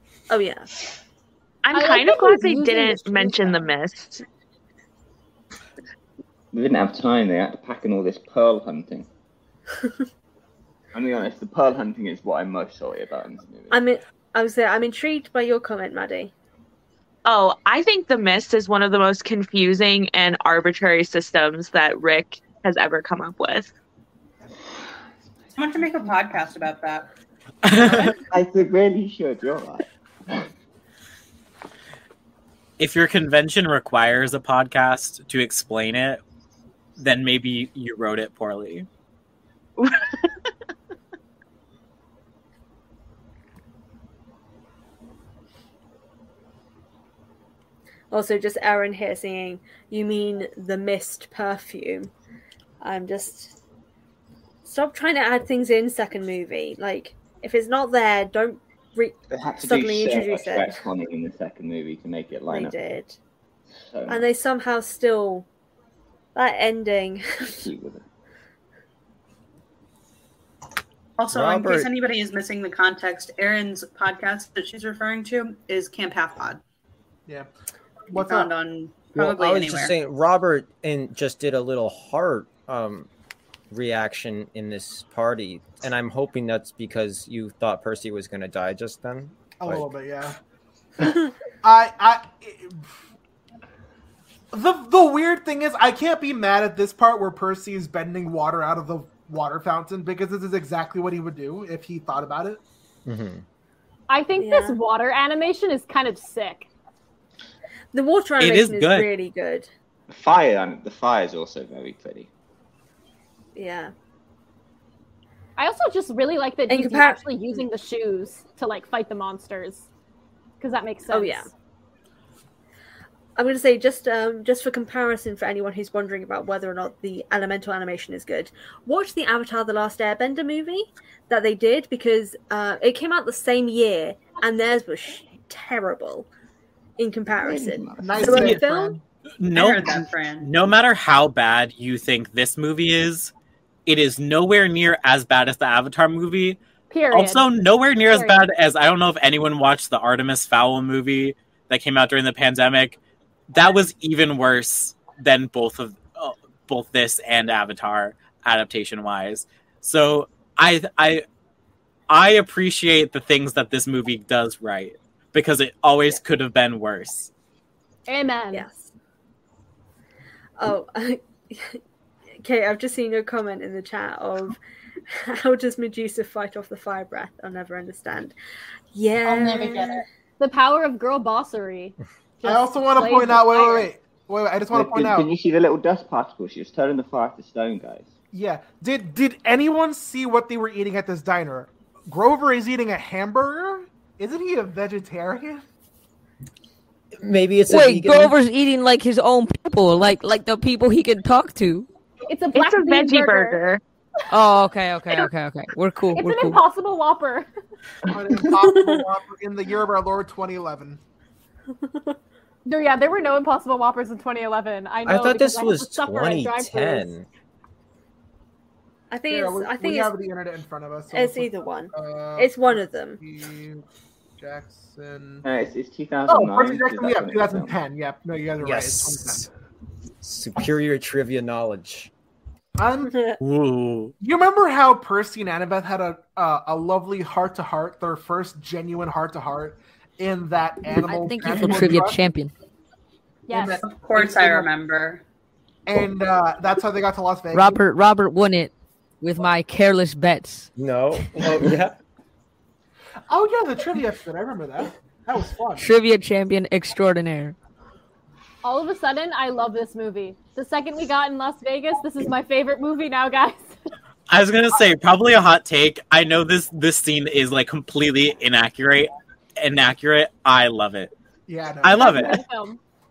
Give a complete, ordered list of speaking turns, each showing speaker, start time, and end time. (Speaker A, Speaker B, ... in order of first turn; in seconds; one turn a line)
Speaker A: 0.3-0.7
Speaker B: 1.6-4.2
Speaker C: 1.7-3.7
Speaker D: 6.5-9.1
Speaker D: 10.9-13.8
Speaker A: 13.7-16.3
Speaker B: 17.2-23.7
Speaker E: 25.5-27.1
Speaker F: 27.6-28.2
Speaker D: 28.3-30.5
Speaker F: 32.8-36.2
Speaker F: 37.0-38.9
Speaker A: 48.1-52.1
Speaker A: 52.8-53.6
Speaker A: 54.6-60.8
Speaker D: 59.3-62.8
Speaker A: 62.5-63.2
Speaker D: 63.9-64.3
Speaker A: 64.1-65.5
Speaker A: 66.3-67.7
Speaker D: 67.5-68.0
Speaker E: 71.2-76.6
Speaker G: 71.3-71.9
Speaker H: 78.1-78.5
Speaker E: 78.1-80.0
Speaker G: 79.2-83.1
Speaker G: 83.7-89.9
Speaker H: 89.6-90.4
Speaker H: 91.6-92.9
Speaker H: 94.5-102.6
Speaker G: 103.1-103.4
Speaker C: 104.1-106.7
Speaker A: 104.4-104.8
Speaker A: 107.9-109.7
Speaker F: 108.4-109.1
Speaker D: 110.1-112.3
Speaker A: 113.5-113.9
Speaker C: 115.6-119.9
Speaker A: 116.7-117.6
Speaker C: 120.6-121.5
Speaker A: 121.1-121.5
Speaker A: 123.4-136.3
Speaker A: 137.0-139.0
Speaker D: 137.4-138.4
Speaker H: 138.0-139.0
Speaker F: 138.3-138.6
Speaker F: 139.4-143.3
Speaker E: 139.5-140.5
Speaker F: 143.9-146.6
Speaker C: 146.9-147.5
Speaker F: 147.1-153.0
Speaker C: 148.1-148.4
Speaker F: 153.5-161.2
Speaker F: 162.1-167.3
Speaker C: 168.1-168.7
Speaker A: 168.5-168.9
Speaker A: 170.6-171.8
Speaker A: 172.4-174.6
Speaker A: 175.1-178.3
Speaker A: 178.9-180.0
Speaker E: 179.2-180.1
Speaker C: 180.4-183.9
Speaker H: 182.4-185.3
Speaker D: 184.7-188.1
Speaker H: 188.3-195.7
Speaker G: 197.2-198.4
Speaker I: 197.7-201.9
Speaker C: 202.3-203.6
Speaker B: 202.5-203.8
Speaker I: 204.3-206.6
Speaker C: 206.2-207.5
Speaker H: 208.1-211.0
Speaker A: 208.5-209.0
Speaker A: 211.9-212.2
Speaker C: 212.7-217.1
Speaker G: 215.1-217.3
Speaker A: 219.1-220.2
Speaker H: 219.3-223.8
Speaker A: 221.1-223.2
Speaker H: 224.4-225.5
Speaker D: 225.4-227.8
Speaker H: 226.3-229.5
Speaker G: 228.6-229.5
Speaker G: 230.2-232.1
Speaker H: 232.8-233.1
Speaker A: 233.0-233.4
Speaker F: 233.4-234.1
Speaker H: 234.2-242.2
Speaker I: 241.1-242.5
Speaker C: 243.5-243.8
Speaker H: 243.5-244.7
Speaker E: 243.8-245.2
Speaker H: 245.9-247.8
Speaker I: 247.5-250.7
Speaker G: 250.8-252.0
Speaker H: 253.3-255.9
Speaker I: 255.8-257.6
Speaker C: 258.6-263.7
Speaker F: 264.3-271.1
Speaker H: 271.5-272.3
Speaker F: 271.8-272.4
Speaker C: 272.0-272.8